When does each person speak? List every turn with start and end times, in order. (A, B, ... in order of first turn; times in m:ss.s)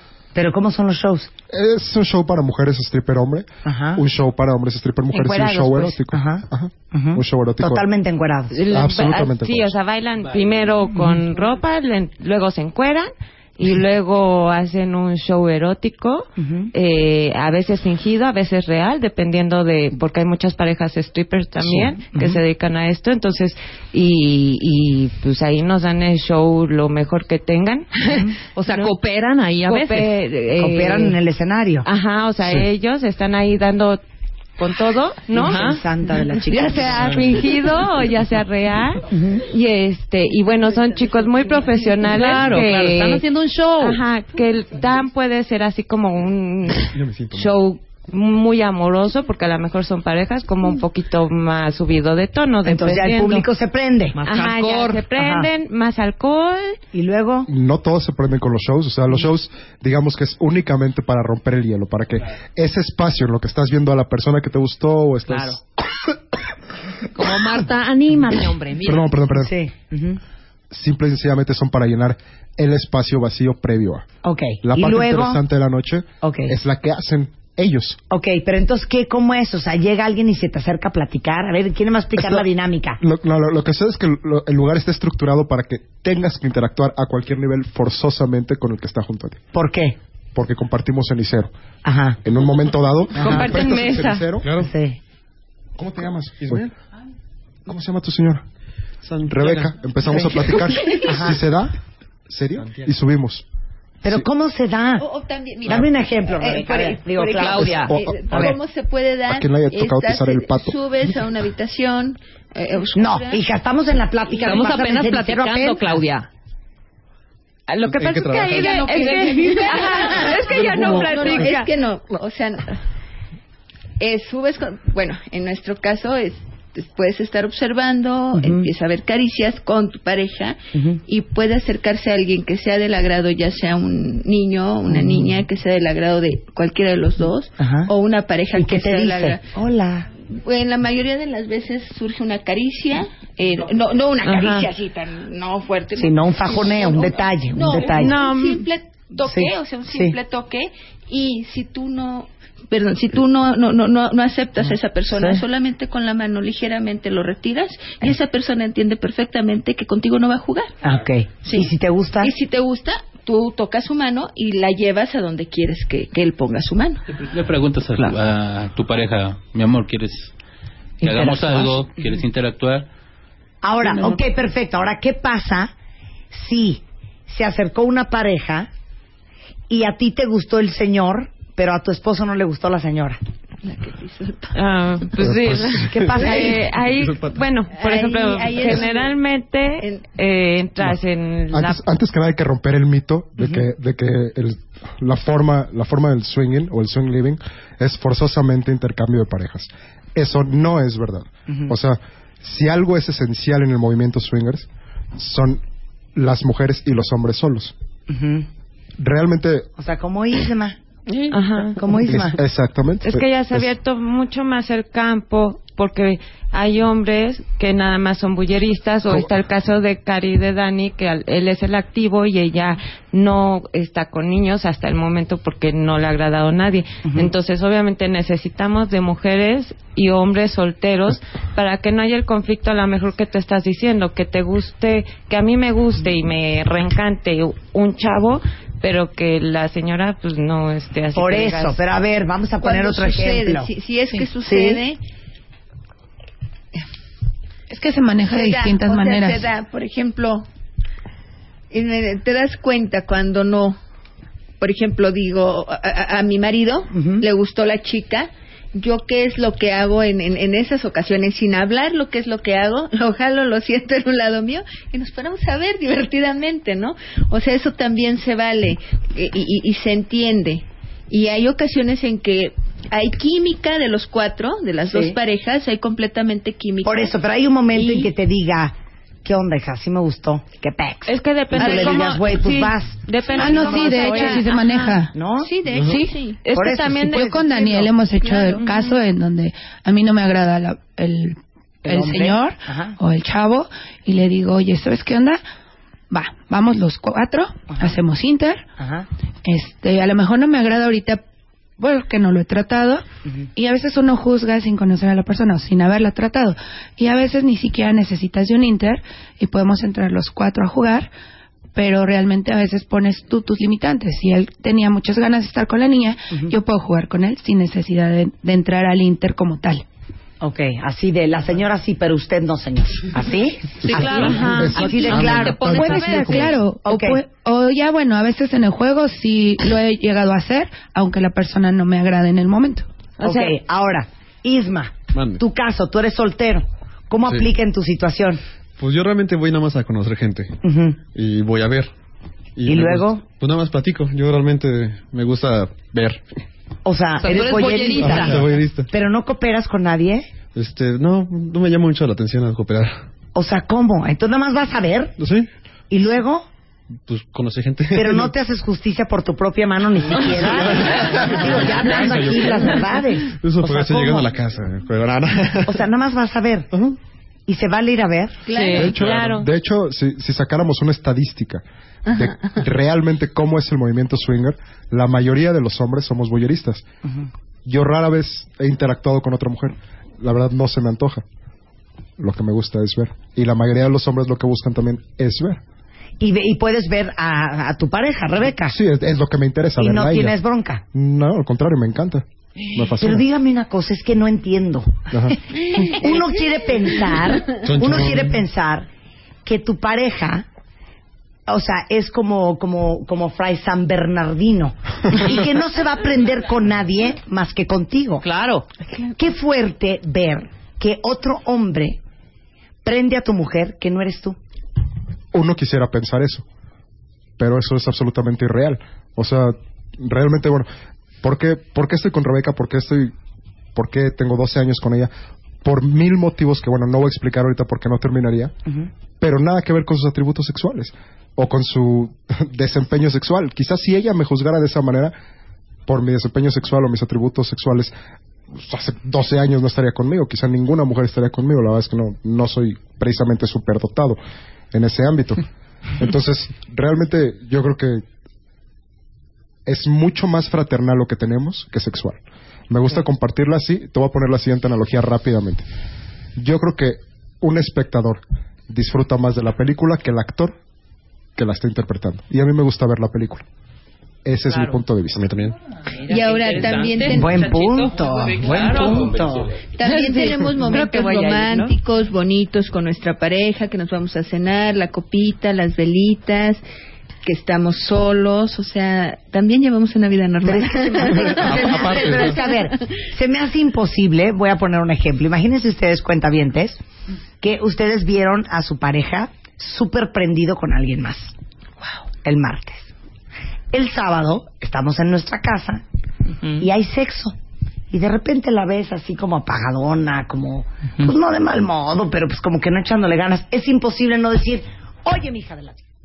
0:00.4-0:01.3 A
0:01.5-0:07.9 B
0:03.6-0:04.0 A
0:05.1-0:05.9 C
0:06.1-0:08.6 A
0:08.5-0:27.9 C
0:08.7-0:09.8 B
0:16.4-0:16.7 A
0:21.6-0:22.4 A
0:28.0-0:30.2 D
0:28.1-0:28.4 A
0:28.7-0:29.0 C
0:29.6-0:31.2 C
0:30.6-0:31.9 A
0:31.8-0:34.0 C
0:34.6-0:35.8 C
0:35.3-0:35.8 D
0:35.4-0:37.0 A
0:36.5-0:43.2 C
0:39.1-0:39.4 A
0:42.0-0:44.0 D
0:43.8-0:53.5 C
0:46.8-0:47.6 E
0:52.6-0:54.2 A
0:54.2-0:55.1 D
0:54.2-0:56.8 C
0:55.2-0:55.5 A
0:56.9-0:57.5 A
0:57.5-1:05.6 B
1:05.3-1:05.6 D
1:07.2-1:09.1 D
1:08.8-1:09.5 B
1:09.3-1:10.2 A
1:10.7-1:14.1 B
1:14.2-1:15.4 A
1:14.6-1:18.0 B
1:16.2-1:16.6 A
1:18.1-1:23.0 A
1:22.2-1:22.4 B
1:23.0-1:29.4 B
1:29.5-1:30.0 A
1:30.4-1:31.5 B
1:31.8-1:32.2 A
1:32.2-1:34.5 B
1:33.2-1:34.3 C
1:33.2-1:33.5 A
1:34.4-1:34.7 E
1:34.6-1:35.0 A
1:35.8-1:36.6 B
1:36.4-1:36.7 E
1:37.7-1:38.4 B
1:39.0-1:40.2 E
1:39.3-1:41.8 B
1:40.1-1:40.5 A
1:41.0-1:41.4 A
1:42.3-1:43.4 B
1:42.6-1:42.9 E
1:44.0-1:45.1 A
1:45.0-1:53.4 F
1:45.6-1:48.6 A
1:47.4-1:47.9 D
1:47.9-1:48.6 B
1:49.3-1:50.8 B
1:53.0-1:56.0 A
1:54.4-1:56.3 D
1:57.7-2:01.7 C
1:57.8-1:58.9 E
1:58.6-2:02.8 F
1:59.0-2:01.6 D
2:04.0-2:19.4 F
2:08.4-2:08.7 A
2:14.9-2:15.4 A
2:17.6-2:17.9 A
2:18.5-2:20.1 A
2:20.3-2:40.7 F
2:24.2-2:24.7 C
2:26.0-2:28.2 A
2:28.0-2:28.6 C
2:29.2-2:30.2 A
2:35.1-2:35.4 A
2:40.8-2:42.3 A
2:41.4-2:47.0 F
2:47.1-2:50.3 G
2:51.0-2:51.9 A
2:51.0-2:52.9 G
2:53.6-2:55.7 A
2:53.9-2:54.2 G
2:56.3-2:58.7 A
2:59.7-3:03.2 A
3:03.6-3:04.6 F
3:04.5-3:11.8 C
3:05.2-3:07.5 E
3:05.9-3:06.6 A
3:07.7-3:09.2 F
3:11.5-3:25.6 B
3:26.2-3:27.7 B
3:28.1-3:28.5 A
3:29.0-3:29.7 B
3:29.8-3:30.8 A
3:31.3-3:31.8 C
3:31.8-3:32.4 A
3:32.0-3:33.7 B
3:33.0-4:01.8 C
3:47.1-3:47.3 A
4:01.2-4:03.7 A
4:02.6-4:05.0 F
4:04.4-4:04.8 A
4:07.7-4:09.5 H
4:08.3-4:10.5 F
4:11.7-4:13.8 F
4:14.6-4:37.1 F
4:16.9-4:17.3 A
4:34.9-4:35.2 A
4:36.8-4:44.3 A
4:37.7-4:38.1 F
4:41.1-4:44.9 C
4:41.6-4:42.2 F
4:43.4-4:45.2 H
4:43.4-4:44.4 F
4:45.1-4:45.5 A
4:45.4-4:46.4 F
4:45.7-4:46.1 E
4:45.8-4:46.2 H
4:46.4-4:47.9 C
4:46.5-4:47.3 A
4:47.1-4:55.4 H
4:48.2-4:48.6 F
4:48.6-4:48.9 C
4:51.8-4:53.0 A
4:56.1-4:58.7 H
4:58.8-4:59.1 A
4:59.4-5:01.2 H
5:01.8-5:11.1 H
5:11.8-5:19.8 H
5:20.4-5:27.2 A
5:23.8-5:26.5 D
5:23.9-5:26.5 B
5:24.0-5:24.6 C
5:25.6-5:32.9 H
5:33.2-5:33.5 C
5:33.2-5:38.4 A
5:35.1-5:35.4 E
5:37.2-5:37.5 E
5:38.8-5:40.6 E
5:40.6-5:41.0 A
5:41.1-5:41.9 E
5:42.6-5:46.3 E
5:42.7-5:43.2 A
5:46.8-5:50.3 A
5:47.2-5:48.3 D
5:48.0-5:48.9 E
5:50.5-5:53.0 E
5:53.4-5:55.1 A
5:55.2-5:55.5 E
5:55.9-5:56.5 A
5:57.1-5:58.3 E
5:57.9-6:04.3 A
6:00.3-6:05.8 E
6:05.7-6:06.7 A
6:06.7-6:07.0 E
6:07.5-6:08.4 A
6:08.5-6:09.0 F
6:08.5-6:09.5 C
6:08.8-6:16.8 B
6:08.8-6:09.1 E
6:17.6-6:21.2 B
6:22.2-6:25.6 B
6:26.2-6:28.8 A
6:28.7-6:30.4 B
6:29.8-6:30.8 A
6:30.9-6:33.3 B
6:33.0-6:38.9 A
6:37.6-6:38.4 E
6:39.4-6:40.4 A
6:41.5-6:48.2 A
6:48.2-6:48.7 D
6:49.2-6:52.0 A
6:52.8-6:54.4 A
6:55.3-6:56.4 B
6:57.4-7:00.7 B
7:01.2-7:03.1 B
7:03.8-7:05.1 B
7:05.6-7:08.5 B
7:09.2-7:15.2 B
7:15.9-7:17.9 B
7:18.5-7:24.2 B
7:24.7-7:25.4 B
7:26.0-7:28.0 B
7:29.7-7:35.7 B
7:36.4-7:40.6 B
7:41.4-7:43.4 B
7:44.2-7:45.3 B
7:45.1-7:45.6 E
7:46.1-7:47.5 F
7:46.1-7:47.8 D
7:47.1-7:49.5 A
7:48.1-7:49.6 G
7:48.5-7:49.0 D
7:49.8-7:56.6 F
7:49.9-7:51.7 D
7:50.6-7:51.6 C
7:57.2-8:02.3 F
8:00.4-8:06.8 A
8:01.0-8:02.4 E
8:07.4-8:11.3 A
8:12.2-8:12.9 A
8:13.7-8:15.8 A
8:16.6-8:17.4 A
8:17.9-8:25.8 A